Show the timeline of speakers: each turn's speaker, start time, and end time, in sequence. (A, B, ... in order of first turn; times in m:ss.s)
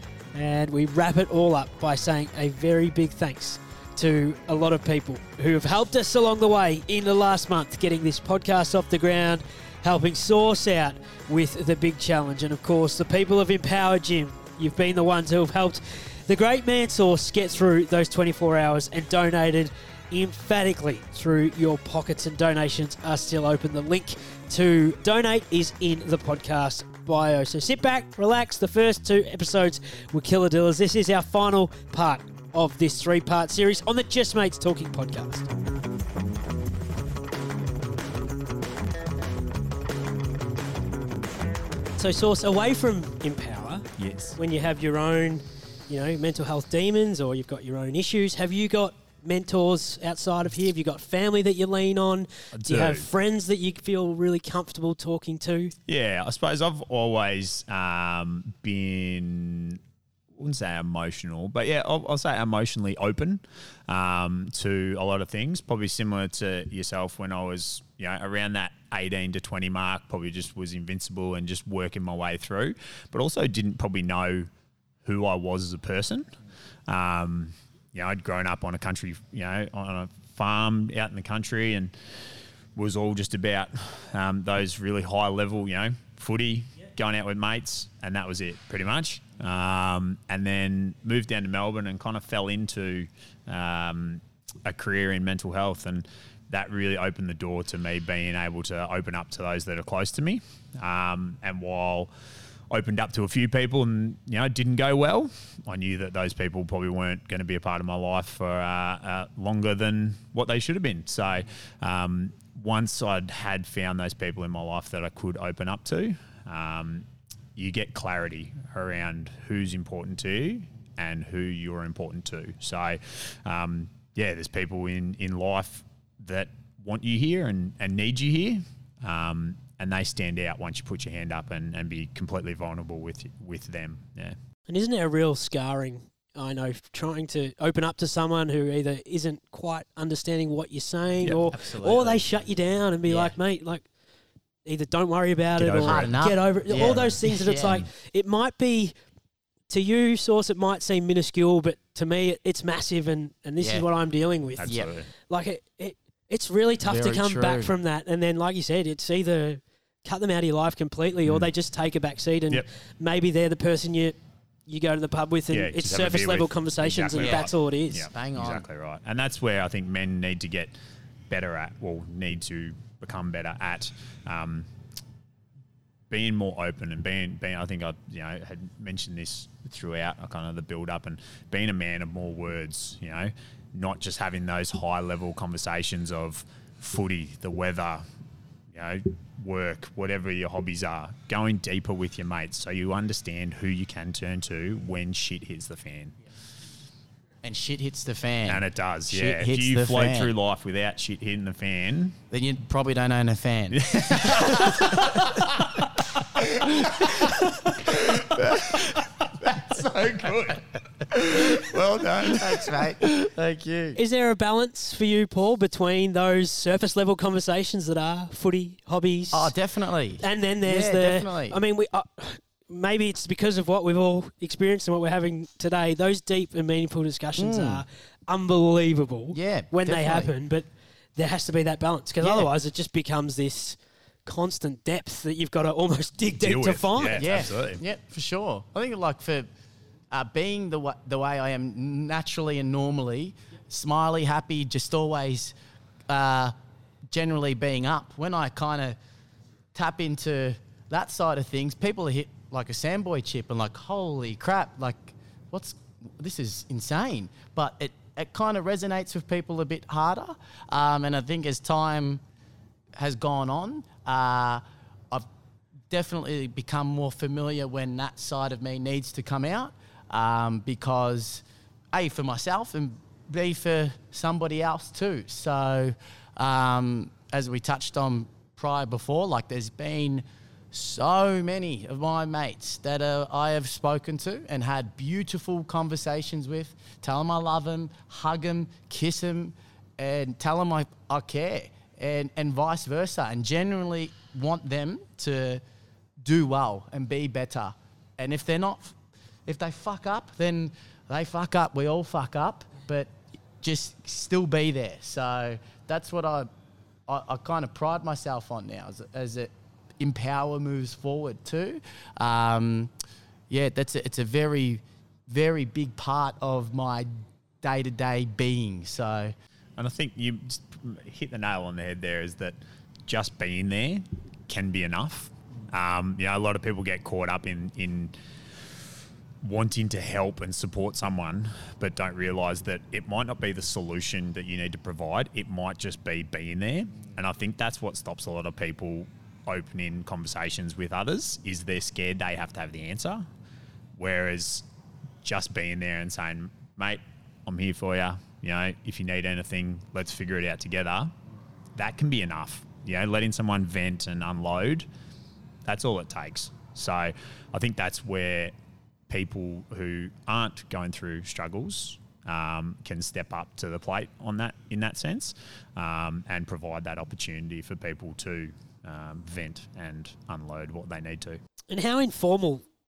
0:00.3-0:35.5 A
0:42.0-0:55.7 A
0:44.0-0:44.4 B
0:52.6-0:53.1 B
0:55.9-0:59.8 B
1:00.4-1:14.5 B
1:15.0-1:16.3 B
1:16.9-1:42.1 B
1:42.7-2:14.4 B
2:14.7-2:23.9 A
2:21.5-2:22.2 C
2:23.1-2:23.4 C
2:24.6-2:28.9 A
2:25.6-2:26.2 B
2:25.8-2:27.8 C
2:29.7-2:48.1 A
2:33.6-2:33.9 C
2:34.6-2:35.1 B
2:36.8-2:37.7 C
2:45.5-2:50.7 B
2:47.2-2:47.5 C
2:48.1-2:48.6 C
2:51.3-2:54.7 B
2:56.1-3:08.0 B
3:08.7-3:16.2 B
3:17.4-3:20.3 C
3:18.5-3:22.2 B
3:22.3-3:25.3 C
3:23.7-3:32.9 B
3:26.8-3:27.3 C
3:32.2-3:34.0 C
3:34.0-3:39.5 A
3:39.3-3:41.6 C
3:40.2-3:50.6 A
3:47.4-3:47.8 C
3:49.3-3:50.3 C
3:51.2-3:57.2 A
3:52.2-3:52.5 C
3:56.4-3:57.8 B
3:57.2-3:59.5 C
4:00.1-4:05.6 C
4:06.1-4:06.5 C
4:07.1-4:09.0 C
4:09.7-4:22.2 C
4:23.0-4:25.3 C
4:25.9-4:55.6 C
4:56.2-5:06.5 C
5:07.1-5:12.9 C
5:13.5-5:17.1 C
5:17.6-5:19.3 C
5:19.8-5:28.1 B
5:29.4-5:43.3 B
5:44.0-5:44.6 B
5:45.2-5:51.1 B
5:51.8-5:54.9 B
5:55.6-5:58.5 B
5:59.1-6:11.4 B
6:11.7-6:12.6 A